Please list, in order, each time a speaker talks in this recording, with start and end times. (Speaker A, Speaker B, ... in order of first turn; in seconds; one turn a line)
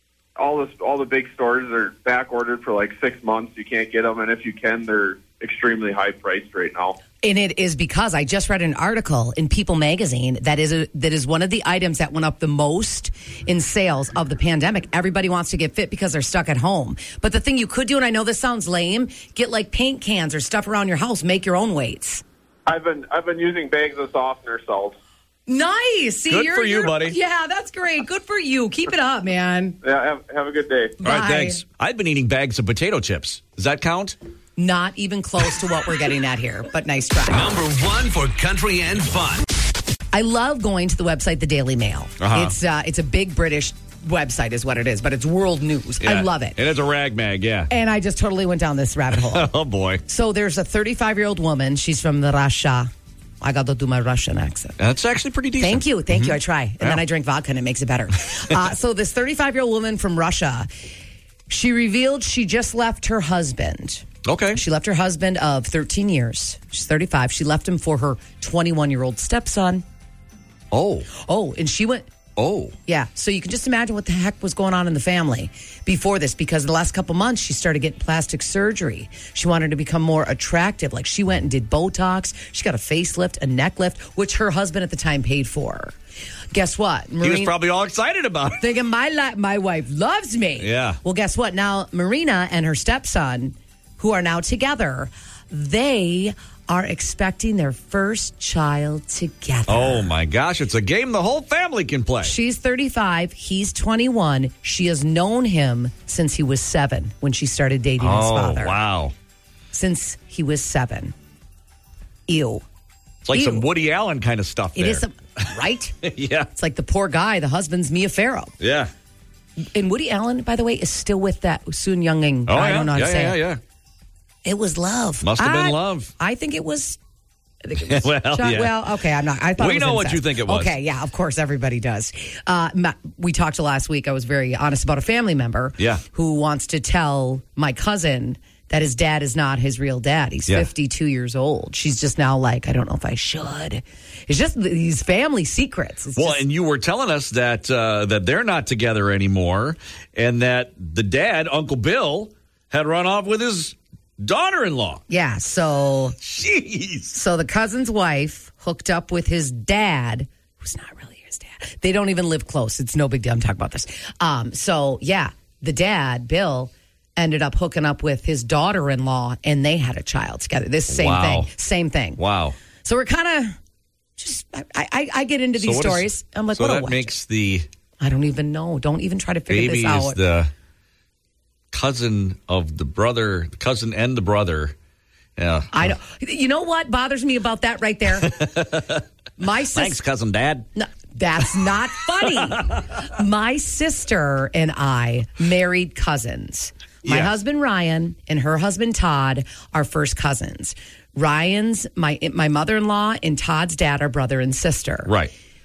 Speaker A: 0.4-7.0
Speaker B: 7.2-22.2
Speaker A: 22.7-24.9
Speaker B: 25.5-29.8
Speaker C: 26.3-27.2
Speaker A: 29.8-31.0
Speaker B: 31.0-31.6
Speaker C: 31.0-34.2
Speaker B: 34.6-37.5
Speaker D: 37.3-39.4
Speaker B: 40.1-46.6
Speaker C: 42.2-42.5
Speaker C: 46.0-47.7
Speaker B: 47.7-49.5
Speaker C: 49.1-50.0
Speaker B: 50.1-54.8
Speaker C: 54.8-57.0
Speaker B: 55.6-60.7
Speaker B: 61.5-69.8
Speaker C: 64.2-64.6
Speaker C: 70.7-71.1
Speaker B: 71.2-72.1
Speaker C: 72.4-72.8
Speaker B: 72.9-86.0
Speaker B: 86.5-87.5
Speaker C: 87.2-88.6
Speaker B: 88.6-100.1
Speaker C: 90.6-91.0
Speaker C: 99.7-102.3
Speaker B: 102.2-108.8
Speaker C: 108.0-109.1
Speaker B: 109.7-111.1
Speaker B: 112.3-112.6
Speaker C: 113.2-115.5
Speaker B: 113.3-113.7
Speaker B: 114.8-116.0
Speaker C: 116.0-116.5
Speaker B: 116.5-118.5
Speaker C: 118.6-118.9
Speaker B: 119.7-123.4
Speaker C: 122.5-123.6
Speaker B: 124.5-127.0
Speaker C: 125.2-126.1
Speaker B: 127.6-146.4
Speaker C: 127.9-128.9
Speaker C: 129.6-130.8
Speaker C: 146.2-155.0
Speaker B: 155.1-156.2
Speaker C: 156.2-157.2
Speaker B: 157.1-172.2
Speaker C: 170.9-171.5
Speaker C: 172.2-172.6
Speaker B: 172.8-173.6
Speaker B: 174.2-177.1
Speaker C: 175.6-177.7
Speaker B: 178.0-180.2
Speaker C: 179.5-180.5
Speaker C: 181.7-184.8
Speaker C: 185.4-185.9
Speaker B: 185.7-188.4
Speaker C: 188.2-189.0
Speaker B: 189.4-190.0
Speaker C: 189.7-190.7
Speaker B: 190.8-205.1
Speaker C: 192.3-192.8
Speaker C: 197.0-197.4
Speaker C: 205.1-205.3